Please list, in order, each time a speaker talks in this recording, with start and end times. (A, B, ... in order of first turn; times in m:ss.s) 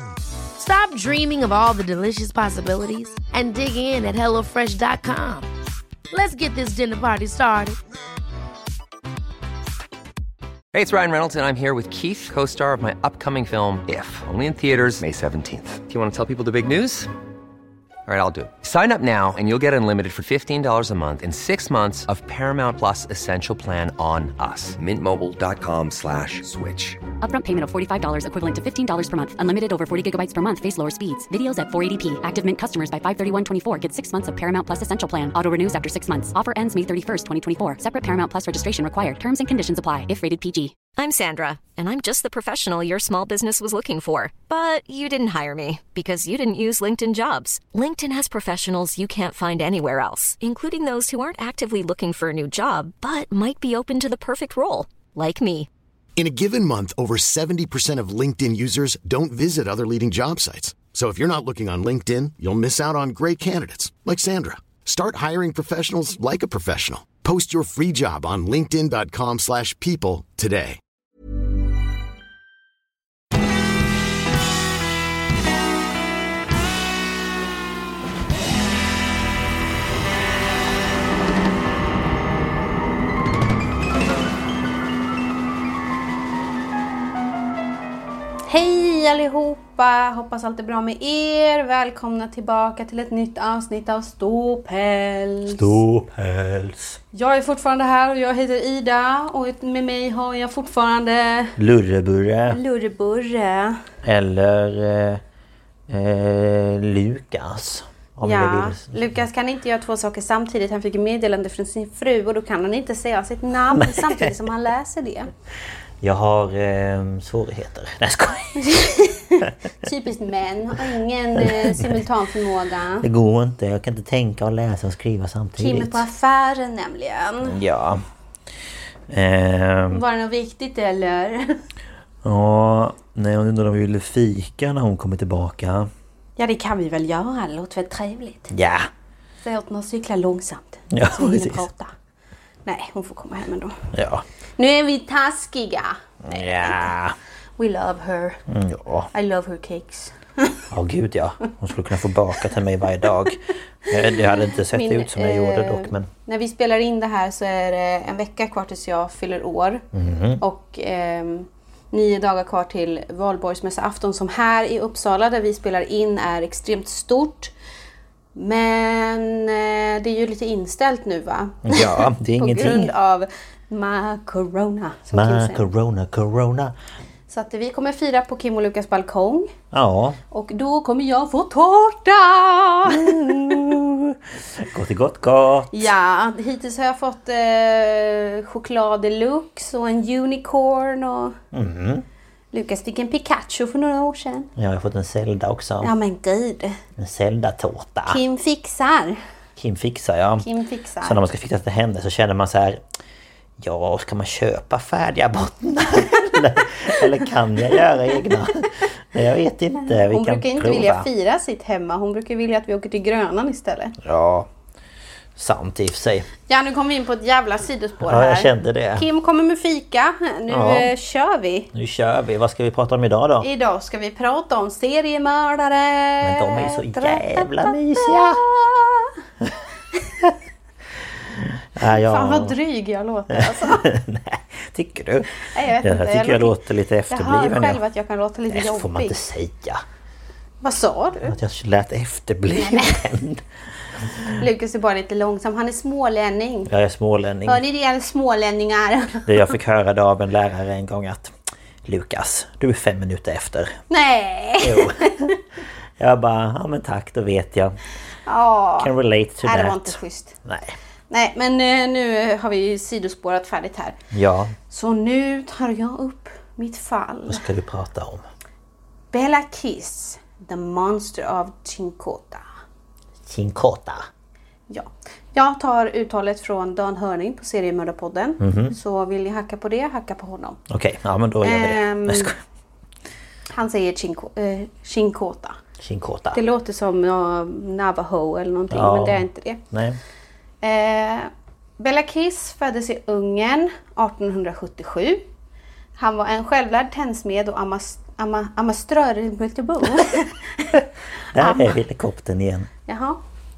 0:00.6-0:05.5 A
0:06.1-0:07.8 A
0:10.7-0:17.1 B
0:18.0-0:27.0 B
0:27.2-0:40.8 C
0:41.0-0:55.7 D
0:56.2-1:10.8 E
1:28.5-1:35.8 F
1:35.5-1:37.0 G
1:37.1-1:41.6 F
1:41.6-1:42.6 G
1:42.5-1:43.8 F
1:44.0-1:45.2 G
1:45.9-1:49.0 G
1:48.2-1:55.3 F
1:53.7-1:54.3 G
1:56.0-1:58.7 G
1:58.6-2:03.1 F
2:01.4-2:02.0 G
2:03.0-2:06.0 G
2:05.6-2:07.6 F
2:07.4-2:08.0 G
2:09.1-2:10.0 G
2:09.9-2:11.6 F
2:12.2-2:15.9 G
2:16.4-2:18.5 F
2:18.5-2:18.9 G
2:19.4-2:21.9 F
2:20.9-2:21.6 G
2:22.6-2:23.8 F
2:23.9-2:24.2 G
2:24.6-2:26.9 F
2:26.2-2:27.1 G
2:27.6-2:28.4 F
2:28.5-2:29.1 G
2:29.1-2:30.6 F
2:30.7-2:36.1 G
2:33.9-2:39.8 F
2:39.9-2:40.4 G
2:40.4-2:47.5 F
2:48.3-2:55.6 F
2:51.6-2:52.9 G
2:55.1-2:56.7 G
2:57.3-2:59.5 F
2:59.7-3:00.2 G
3:00.3-3:03.6 F
3:02.8-3:05.8 G
3:05.7-3:11.4 F
3:11.5-3:12.0 G
3:12.5-3:14.5 F
3:14.6-3:15.9 G
3:15.8-3:16.8 F
3:17.0-3:18.2 G
3:18.1-3:19.2 F
3:19.6-3:20.5 G
3:20.4-3:21.2 F
3:21.0-3:22.8 G
3:23.6-3:31.0 G
3:29.8-3:34.0 F
3:34.0-3:34.5 G
3:35.4-3:36.3 G
3:36.5-3:41.7 F
3:38.0-3:39.1 G
3:40.5-3:40.9 G
3:41.7-3:43.5 G
3:43.4-3:49.2 F
3:46.2-3:48.4 G
3:51.7-3:52.6 G
3:51.9-3:53.9 F
3:53.3-3:57.8 G
3:55.5-3:56.6 F
3:57.1-3:59.2 F
3:58.5-3:59.8 G
4:00.6-4:01.4 F
4:01.2-4:03.4 G
4:02.5-4:03.0 F
4:04.0-4:04.3 G
4:04.2-4:06.7 F
4:06.7-4:07.6 G
4:07.4-4:09.5 F
4:09.2-4:11.3 G
4:11.8-4:13.8 G
4:13.9-4:15.4 F
4:14.6-4:15.3 G
4:16.0-4:17.8 G
4:18.3-4:18.9 F
4:18.8-4:20.7 G
4:19.4-4:20.4 F
4:21.1-4:24.0 F
4:24.1-4:24.5 G
4:24.7-4:27.4 F
4:27.3-4:28.2 G
4:29.1-4:32.4 F
4:33.2-4:34.0 G
4:34.7-4:40.6 F
4:38.4-4:38.7 G
4:40.7-4:42.4 G
4:41.4-4:42.3 F
4:43.5-4:45.6 F
4:45.8-4:46.4 G
4:46.3-4:49.6 F
4:48.7-4:50.0 G
4:50.6-4:55.2 F
4:56.0-5:00.8 F
5:01.3-5:02.7 G
5:01.4-5:01.8 F
5:02.9-5:03.2 F